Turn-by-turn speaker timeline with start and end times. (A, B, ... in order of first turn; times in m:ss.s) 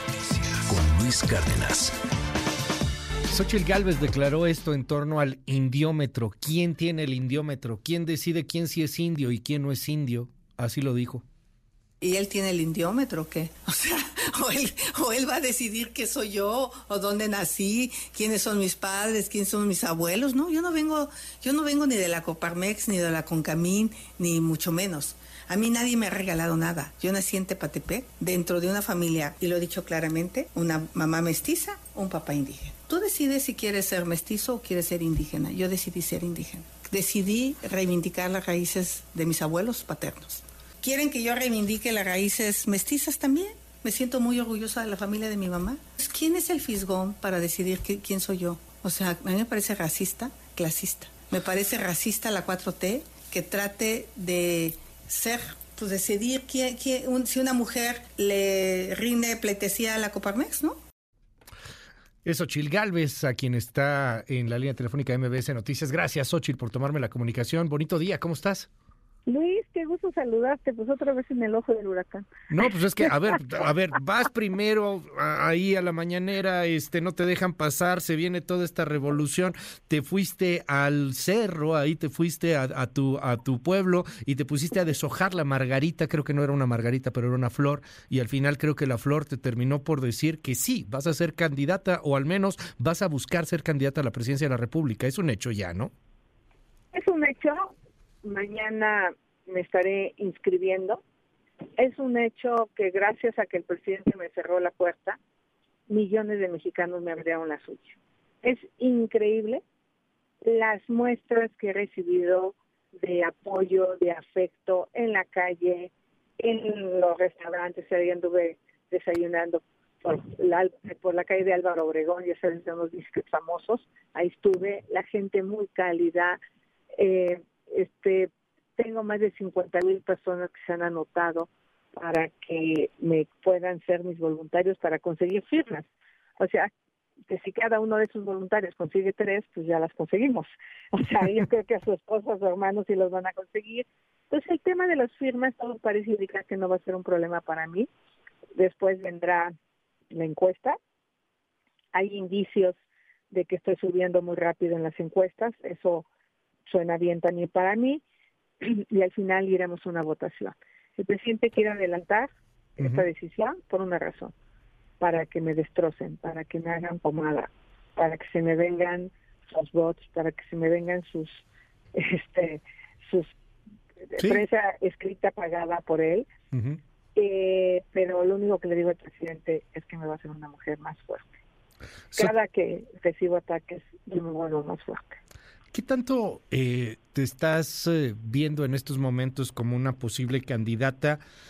0:00.7-0:01.9 A
0:03.3-0:11.2 A
0:12.0-1:00.8 B
1:02.2-1:08.7 A
1:09.2-1:13.1 C
1:12.5-1:35.9 A
1:36.9-1:37.7 C
1:38.2-1:41.0 C
1:41.8-1:45.2 C
1:45.9-1:49.6 C
1:50.4-2:06.4 C
2:06.9-2:16.7 C
2:17.3-2:27.9 C
2:28.5-2:29.5 C
2:30.1-2:30.8 C
2:31.9-2:32.8 C
2:33.3-2:36.0 C
2:36.7-2:38.0 C
2:38.6-2:44.3 C
2:42.8-2:43.0 A
2:45.0-2:53.3 C
2:54.1-2:56.3 C
2:56.5-2:56.8 A
2:57.2-3:01.3 C
3:02.1-3:05.2 C
3:05.7-3:11.2 A